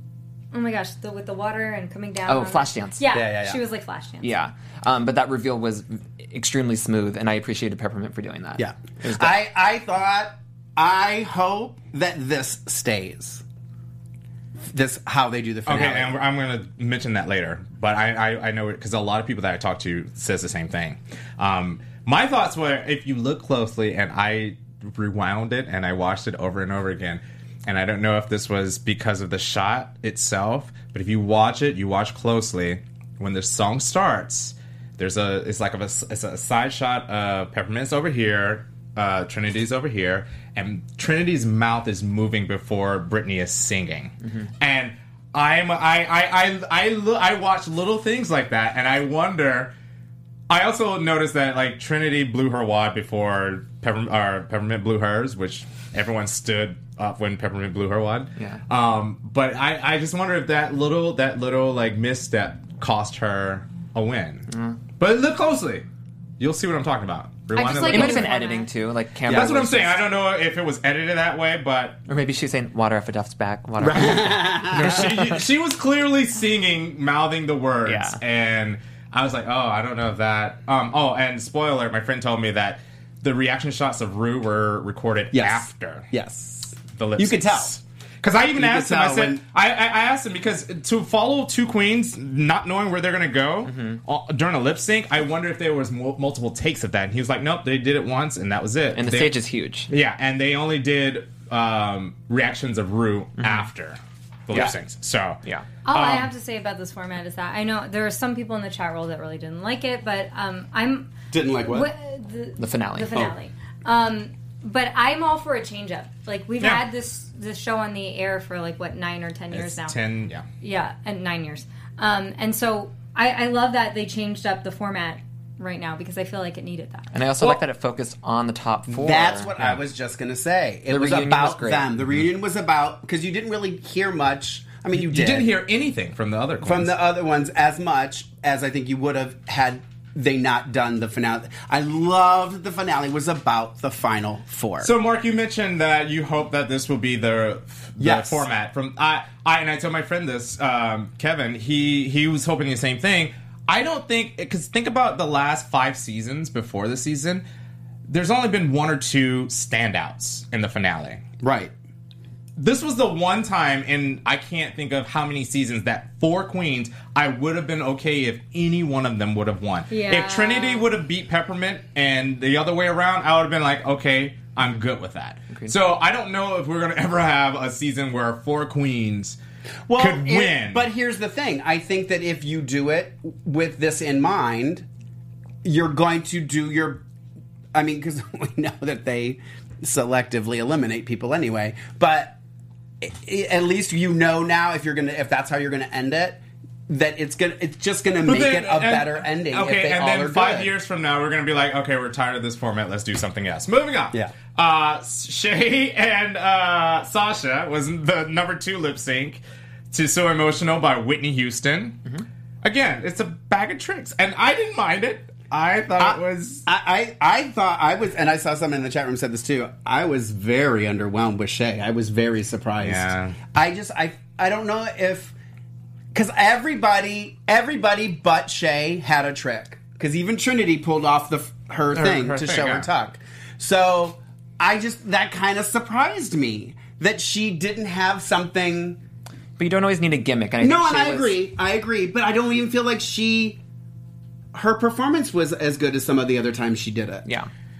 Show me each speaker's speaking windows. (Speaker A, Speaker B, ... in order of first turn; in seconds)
Speaker A: 0.5-4.3, 67.5-68.7, 105.8-111.1, 111.6-120.0, 120.6-127.1, 169.9-170.9
Speaker B: 2.3-3.0, 4.2-9.3, 64.5-64.8, 67.6-70.0, 72.1-75.3, 77.8-78.2, 93.7-94.0, 98.9-99.9, 103.4-103.7, 112.6-113.3, 127.1-129.5, 130.9-131.9, 239.6-241.4
Speaker C: 3.1-3.6, 8.6-13.4, 14.7-16.2, 73.8-75.0, 85.3-87.8, 88.5-89.4, 111.3-111.9, 128.9-135.6, 136.6-144.9, 148.0-148.4, 161.4-161.7, 179.9-184.8, 185.6-187.0, 187.7-192.4, 193.0-200.7, 216.0-225.3, 226.1-239.0, 240.6-243.6, 244.5-247.2
Speaker D: 15.7-49.7, 50.5-65.8, 66.4-68.3, 69.2-72.0, 74.7-86.1, 87.0-99.4, 99.9-105.4, 105.9-106.3, 119.5-120.4, 134.9-136.9, 144.8-157.4, 158.1-161.2, 162.6-179.4, 179.9-180.8, 198.2-212.0, 212.6-216.7, 222.8-223.4, 231.9-232.9